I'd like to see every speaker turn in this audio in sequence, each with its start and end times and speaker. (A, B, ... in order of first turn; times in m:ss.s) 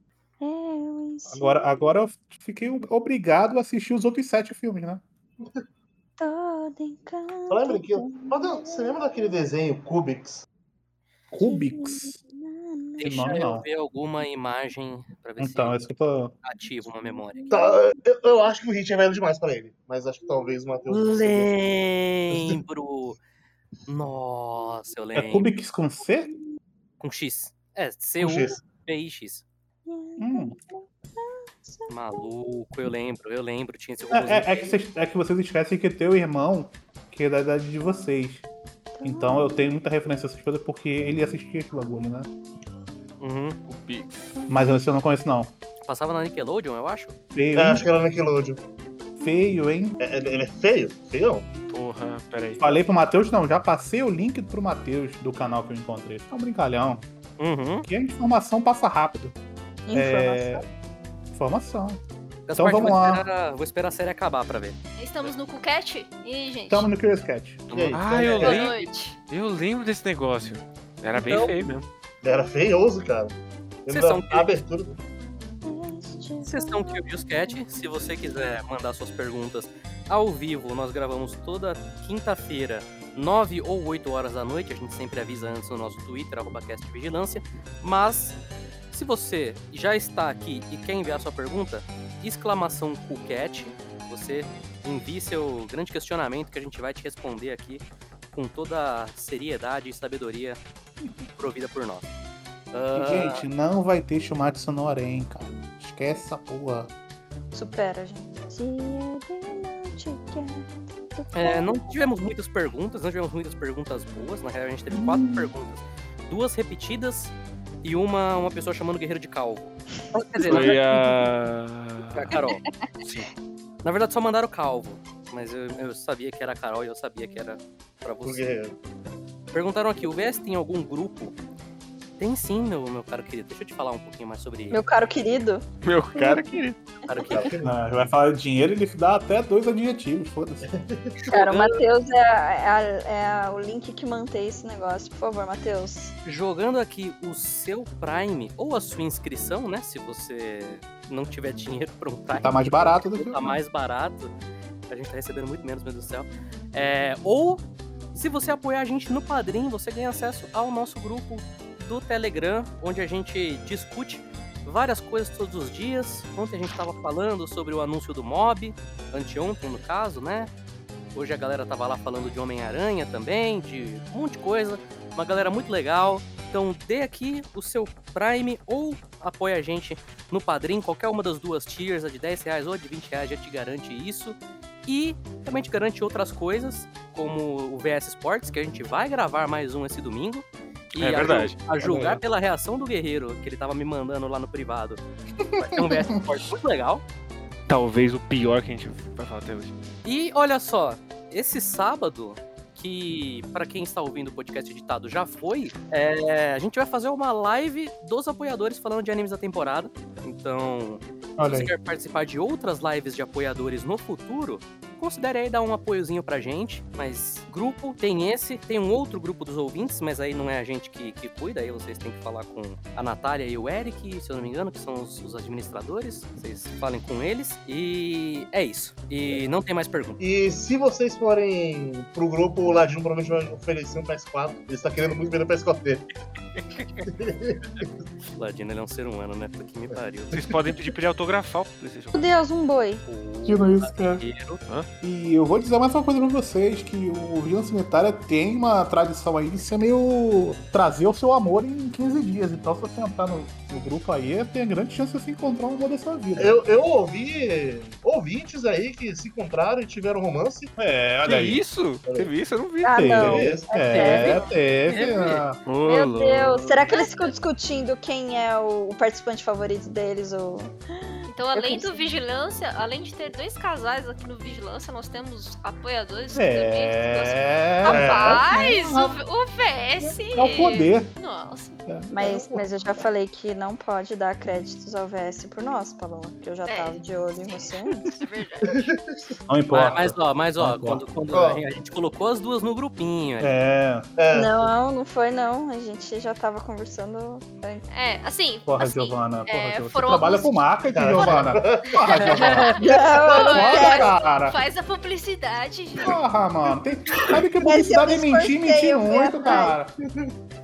0:00.4-0:01.7 A
0:01.3-0:05.0 B
0:06.2-0:09.2 A
0:07.5-0:10.4 C
0:11.3-0:12.2 B
0:11.4-0:13.3 A
0:13.0-0:15.8 D
0:13.0-0:13.6 B
0:15.4-0:16.3 B
0:16.4-0:17.5 D
0:17.0-0:17.8 A
0:17.5-0:21.5 C
0:20.9-0:23.2 D
0:22.3-0:22.6 C
0:23.9-0:25.5 D
0:25.1-0:26.3 B
0:27.0-0:29.4 D
0:28.2-0:28.6 C
0:29.8-0:32.3 A
0:30.2-0:30.6 B
0:31.9-0:34.8 D
0:34.1-0:38.4 B
0:38.9-0:39.7 A
0:39.0-0:42.3 B
0:43.2-0:43.6 D
0:43.6-0:44.2 E
0:44.5-0:45.5 B
0:45.8-0:47.2 D
0:47.3-0:47.8 B
0:47.5-0:48.6 C
0:49.2-0:50.0 B
0:50.0-0:51.5 C
0:51.7-0:52.7 E
0:52.6-0:57.0 B
0:57.4-0:57.9 D
0:57.8-0:59.3 B
0:59.8-1:00.6 A
0:59.9-1:00.6 B
1:01.3-1:02.0 B
1:02.5-1:04.8 D
1:02.5-1:03.2 B
1:05.0-1:06.9 F
1:06.7-1:07.6 B
1:07.7-1:08.7 C
1:07.7-1:08.0 D
1:07.9-1:11.8 E
1:08.3-1:09.2 F
1:11.1-1:11.6 D
1:12.2-1:15.0 C
1:13.9-1:14.5 D
1:15.6-1:17.6 A
1:16.4-1:28.4 D
1:28.9-1:40.6 D
1:41.4-1:42.1 D
1:42.7-1:43.4 D
1:42.9-1:46.9 B
1:47.5-1:51.8 A
1:51.3-2:01.0 D
1:54.9-1:55.5 B
2:00.4-2:02.4 E
2:02.1-2:02.6 D
2:03.0-2:03.3 E
2:03.8-2:08.4 D
2:08.2-2:08.7 C
2:09.5-2:11.4 D
2:12.2-2:14.8 D
2:14.7-2:15.6 A
2:15.8-2:16.9 E
2:16.1-2:16.6 A
2:17.1-2:17.5 D
2:17.3-2:17.7 C
2:17.6-2:20.6 B
2:20.6-2:21.3 C
2:21.3-2:26.1 A
2:21.3-2:21.8 D
2:26.2-2:34.3 D
2:32.4-2:33.6 B
2:34.9-2:37.6 D
2:38.1-2:50.5 D
2:51.1-3:15.0 D
3:11.0-3:11.6 E
3:11.8-3:12.2 B
3:15.4-3:16.2 B
3:15.6-3:17.0 D
3:17.7-3:19.7 E
3:20.0-3:50.2 D
3:31.4-3:31.7 B
3:50.2-3:56.1 C
3:56.6-3:57.0 E
3:57.0-3:57.9 C
3:58.3-4:00.3 D
4:00.3-4:02.3 E
4:02.1-4:03.0 A
4:03.0-4:04.6 D
4:03.4-4:04.2 B
4:05.0-4:16.6 B
4:16.4-4:20.7 C
4:20.8-4:21.6 B
4:21.2-4:23.2 E
4:22.0-4:22.3 C
4:22.8-4:24.5 A
4:22.9-4:25.6 B
4:23.2-4:23.8 C
4:23.9-4:25.4 D
4:25.6-4:26.8 E
4:25.8-4:32.0 A
4:26.9-4:27.4 F
4:31.3-4:41.8 F
4:36.3-4:39.2 B
4:37.9-4:38.4 C
4:40.0-4:41.1 B
4:41.9-4:42.8 B
4:42.1-4:48.1 A
4:46.6-4:47.0 F
4:47.9-4:48.9 F
4:48.6-4:49.3 C
4:49.5-4:51.0 B
4:49.7-4:53.5 D
4:51.3-4:51.6 C
4:53.4-4:54.1 B
4:54.2-4:54.7 C
4:54.3-4:57.8 A
4:57.9-5:00.6 F
4:58.7-5:02.8 B
5:00.9-5:03.9 C
5:01.2-5:01.4 F
5:02.1-5:02.6 D
5:02.2-5:06.2 F
5:02.8-5:04.1 A
5:03.5-5:04.6 B
5:06.0-5:09.9 B
5:07.6-5:09.8 A